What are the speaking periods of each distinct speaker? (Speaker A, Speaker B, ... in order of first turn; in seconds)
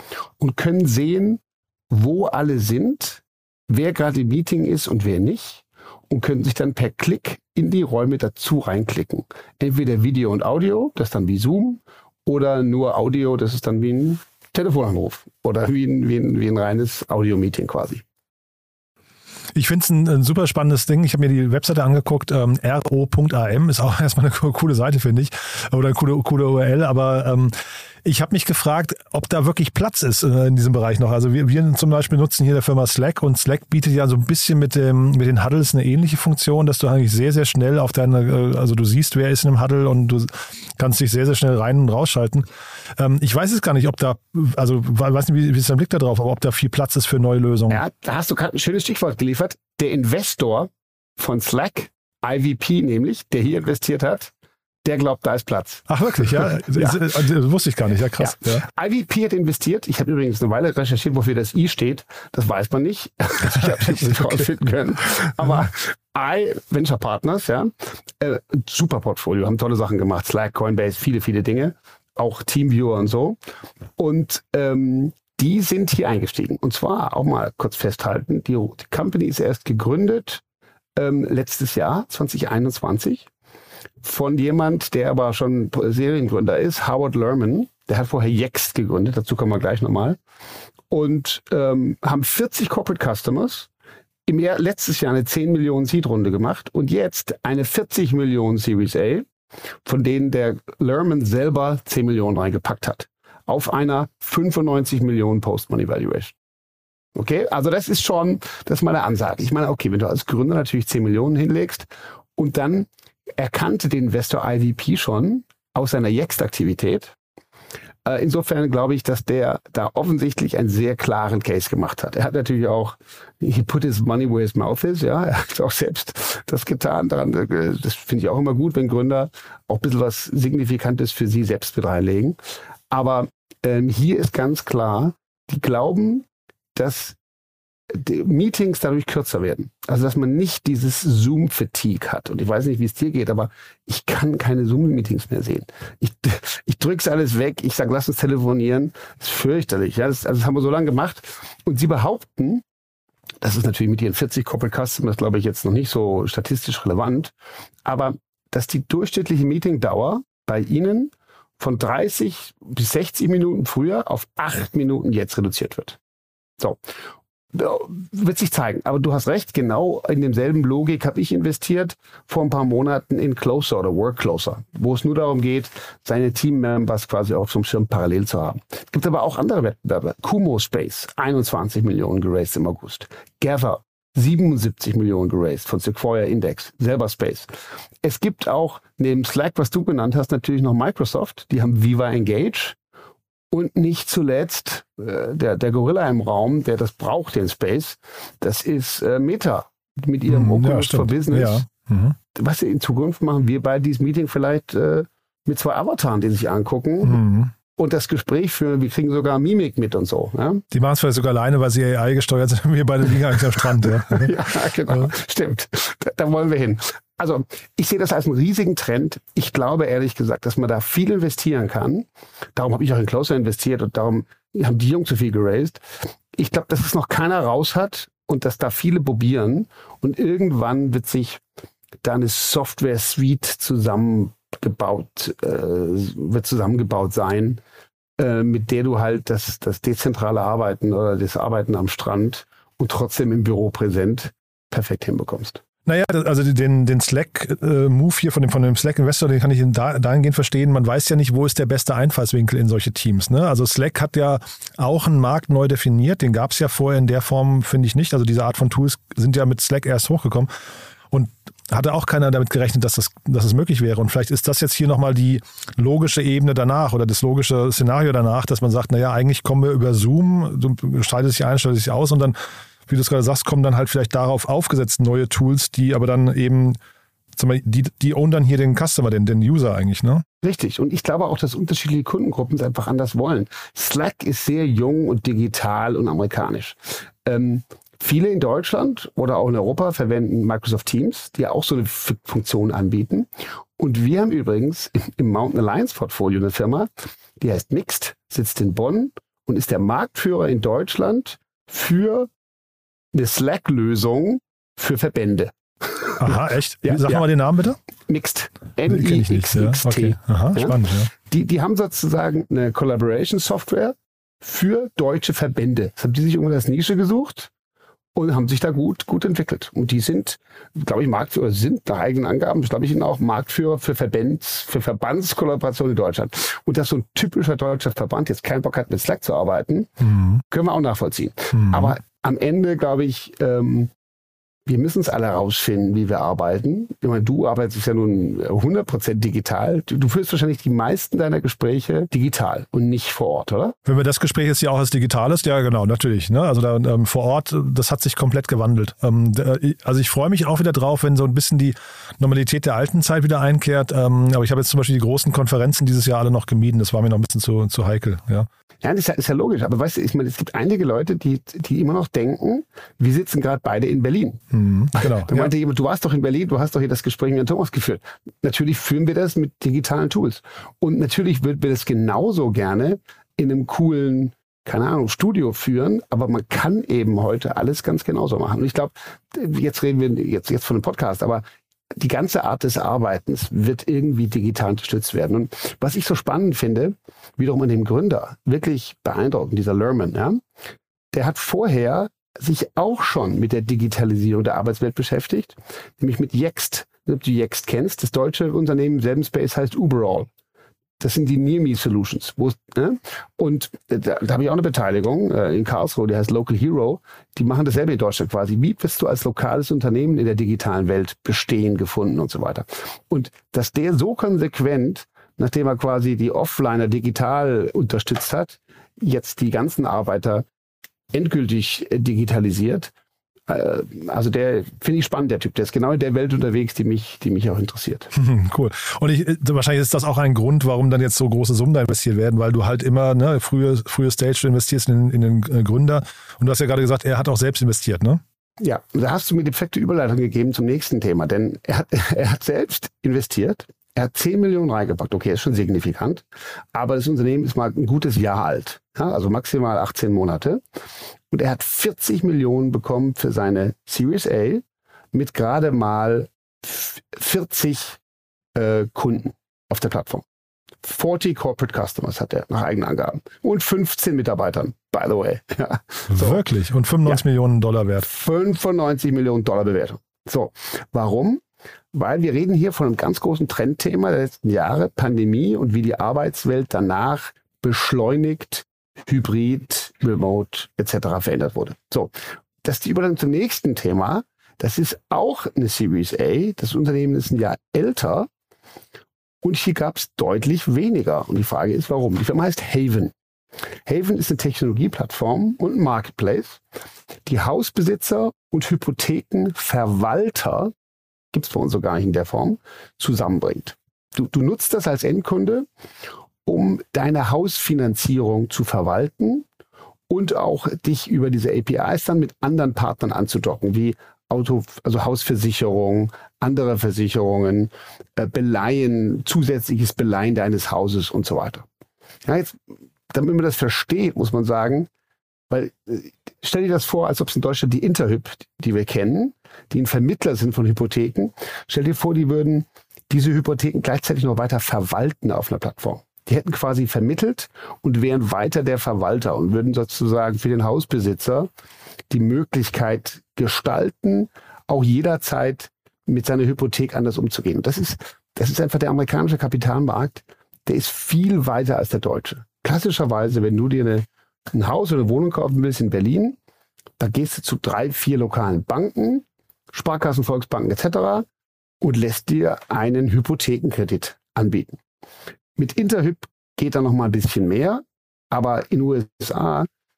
Speaker A: 0.4-18.0, 47.7-54.3, 54.9-57.2, 58.2-73.4, 74.0-80.4, 81.0-83.3, 84.0-90.2, 90.9-93.7, 94.3-99.3, 99.8-106.3, 107.2-117.2, 118.0-132.4, 132.9-137.2, 137.9-152.6, 153.4-157.3, 157.8-166.0, 167.5-187.5, 188.0-192.8, 193.5-201.7, 202.3-207.2, 207.8-210.6, 214.1-225.8, 226.3-231.4, 232.0-237.6, 238.2-245.6, 280.4-296.9, 297.4-302.3, 303.1-307.3, 308.1-317.5, 318.1-333.9, 334.7-343.8, 358.8-364.4, 364.9-381.4, 382.0-390.4, 391.1-400.3, 401.0-420.4, 421.1-422.9, 423.5-428.1, 438.6-450.6, 451.3-458.0, 458.6-460.3, 460.8-466.4, 468.0-471.4, 471.9-482.1, 482.6-488.3, 489.4-493.1, 493.9-496.6, 497.3-500.7, 501.3-505.7, 506.4-509.5, 510.1-521.6, 522.2-522.6, 523.1-524.9, 525.5-541.5, 542.1-556.4, 557.0-561.3, 561.8-564.8, 565.6-569.7
Speaker B: 19.6-42.5, 43.0-47.8, 55.9-58.7, 63.8-64.4, 200.3-202.2, 207.0-207.5, 210.7-214.3, 245.9-260.5, 261.1-272.4, 272.9-276.8, 277.4-280.2, 306.2-307.8, 308.9-311.1, 331.6-331.9, 343.9-358.5, 364.5-365.5, 428.1-438.2, 466.1-468.1